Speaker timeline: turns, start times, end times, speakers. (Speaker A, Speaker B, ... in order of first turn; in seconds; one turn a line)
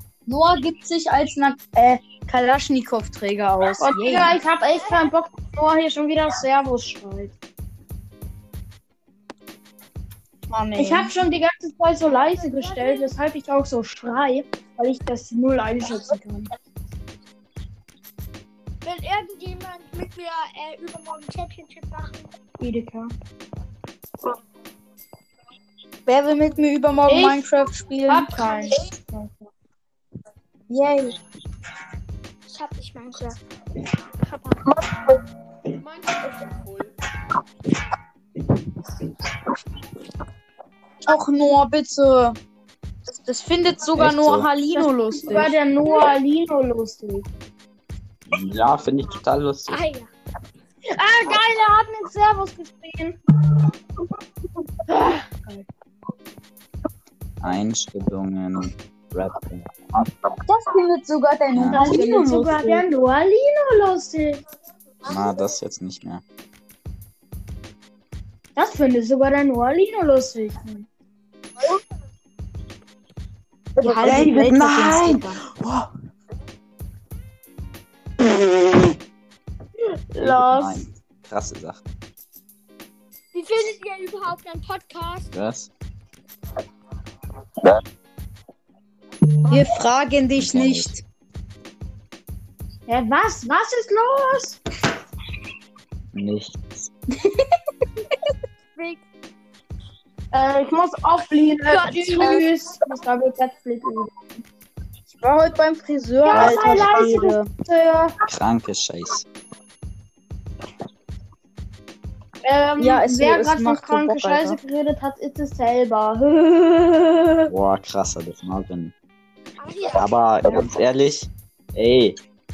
Speaker A: 0.3-4.4
Speaker B: 3.8-7.3
Speaker C: 4.7-5.1
Speaker A: 10.5-11.1
Speaker B: 10.8-16.5
Speaker C: 12.0-13.2
Speaker C: 18.8-22.3
Speaker B: 22.6-23.1
Speaker A: 26.1-28.8
Speaker D: 26.6-28.0
Speaker B: 27.1-27.4
Speaker B: 28.1-29.5
Speaker A: 30.7-31.2
Speaker C: 32.5-33.4
Speaker C: 34.2-34.6
Speaker D: 35.8-37.0
Speaker A: 41.0-42.4
Speaker A: 43.2-45.5
Speaker E: 43.9-44.5
Speaker B: 44.7-47.2
Speaker E: 48.3-49.8
Speaker C: 49.7-50.1
Speaker B: 50.9-53.1
Speaker B: 54.9-55.6
Speaker E: 57.4-60.0
Speaker A: 60.5-62.9
Speaker E: 61.5-62.0
Speaker B: 61.7-64.4
Speaker E: 65.0-66.2
Speaker B: 68.5-70.8
Speaker A: 73.8-75.4
Speaker E: 73.8-75.9
Speaker B: 73.8-74.2
Speaker B: 80.1-80.8
Speaker E: 80.2-81.9
Speaker C: 83.3-85.3
Speaker E: 85.3-85.7
Speaker A: 89.5-91.0
Speaker E: 90.4-91.0
Speaker B: 92.9-94.6
Speaker E: 96.1-96.9
Speaker C: 98.8-99.0
Speaker B: 100.3-104.1
Speaker C: 101.7-102.4
Speaker A: 105.1-107.5
Speaker B: 106.2-108.2
Speaker E: 106.3-107.1
Speaker E: 108.2-109.2
Speaker B: 112.4-117.5
Speaker A: 112.8-114.6
Speaker E: 117.5-118.9
Speaker C: 119.6-120.2
Speaker E: 119.9-122.2